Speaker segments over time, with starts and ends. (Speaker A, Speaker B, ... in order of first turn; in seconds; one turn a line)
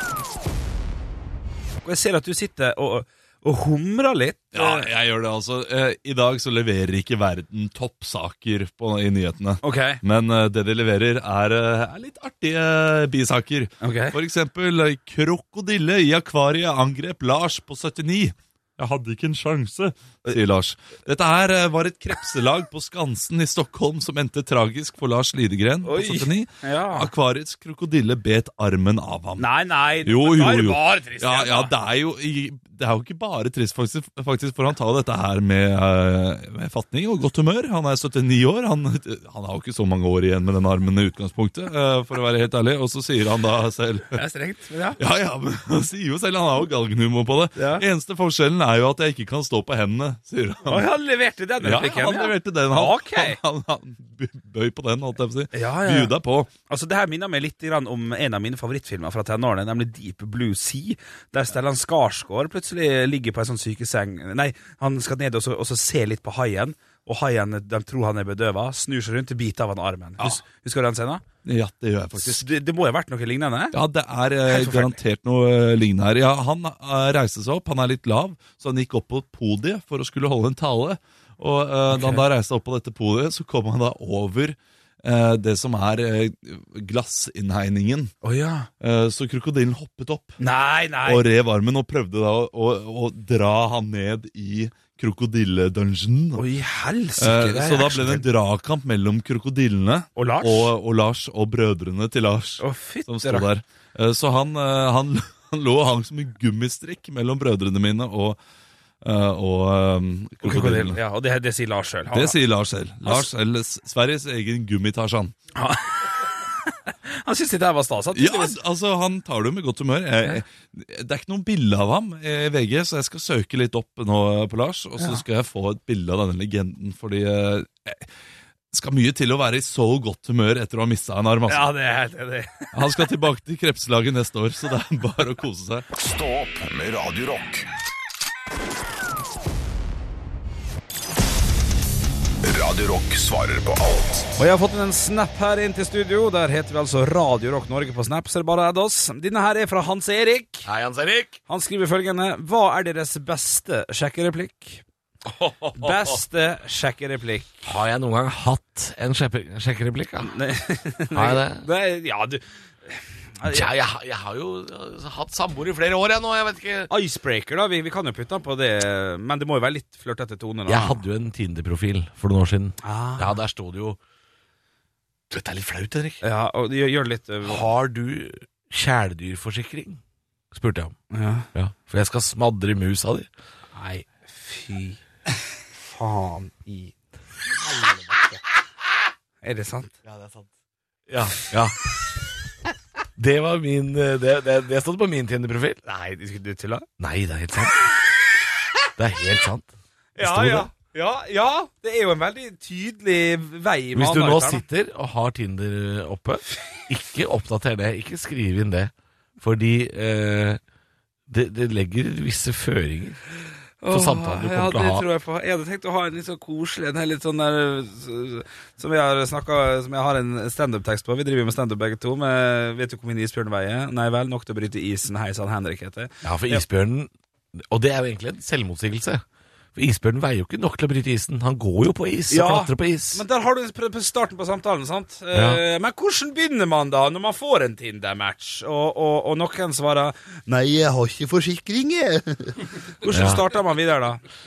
Speaker A: 1.8-4.9
Speaker B: 4.5-29.5
Speaker A: 9.6-10.0
Speaker A: 13.8-14.2
Speaker A: 25.8-27.1
Speaker A: 29.4-31.7
Speaker B: 30.0-44.2
Speaker A: 44.1-45.0
Speaker B: 45.0-50.9
Speaker A: 47.6-47.9
Speaker A: 50.7-53.4
Speaker B: 51.6-56.5
Speaker A: 55.5-56.1
Speaker A: 56.7-71.2
Speaker B: 71.4-72.5
Speaker A: 72.2-73.8
Speaker B: 73.7-88.1
Speaker A: 74.5-75.0
Speaker A: 81.9-82.2
Speaker A: 88.2-88.7
Speaker B: 88.8-90.4
Speaker A: 90.4-91.3
Speaker B: 91.0-96.4
Speaker A: 96.3-98.3
Speaker B: 97.2-108.4
Speaker A: 100.2-100.7
Speaker A: 102.6-103.5
Speaker B: 109.0-111.0
Speaker A: 110.4-112.4
Speaker B: 112.1-115.3
Speaker A: 115.5-116.1
Speaker A: 116.7-118.6
Speaker B: 118.1-128.1
Speaker B: 128.7-131.7
Speaker A: 131.5-132.8
Speaker B: 132.7-135.9
Speaker C: 135.9-137.7
Speaker C: 142.4-144.4
Speaker A: 144.4-150.7
Speaker D: 150.7-151.4
Speaker A: 151.5-154.8
Speaker D: 155.3-156.2
Speaker A: 155.8-157.6
Speaker D: 157.6-160.4
Speaker A: 160.3-163.7
Speaker D: 161.1-161.7
Speaker D: 163.5-166.9
Speaker A: 166.9-171.0
Speaker D: 170.7-174.0
Speaker A: 172.8-173.4
Speaker D: 175.3-176.2
Speaker A: 176.2-177.6
Speaker D: 177.4-180.0
Speaker D: 180.5-181.0
Speaker A: 181.1-181.5
Speaker D: 181.5-183.3
Speaker A: 183.8-185.0
Speaker D: 185.9-186.6
Speaker A: 186.6-186.9
Speaker A: 187.8-188.4
Speaker A: 189.4-189.9
Speaker D: 190.1-190.4
Speaker D: 191.1-191.8
Speaker D: 193.2-195.8
Speaker A: 195.8-196.9
Speaker D: 197.0-197.9
Speaker D: 199.0-200.7
Speaker A: 200.2-204.6
Speaker D: 203.9-210.6
Speaker D: 211.3-213.2
Speaker A: 213.8-226.6
Speaker D: 213.9-215.1
Speaker D: 226.2-229.2
Speaker D: 229.8-233.2
Speaker A: 232.3-244.2
Speaker D: 235.3-235.6
Speaker D: 243.1-243.4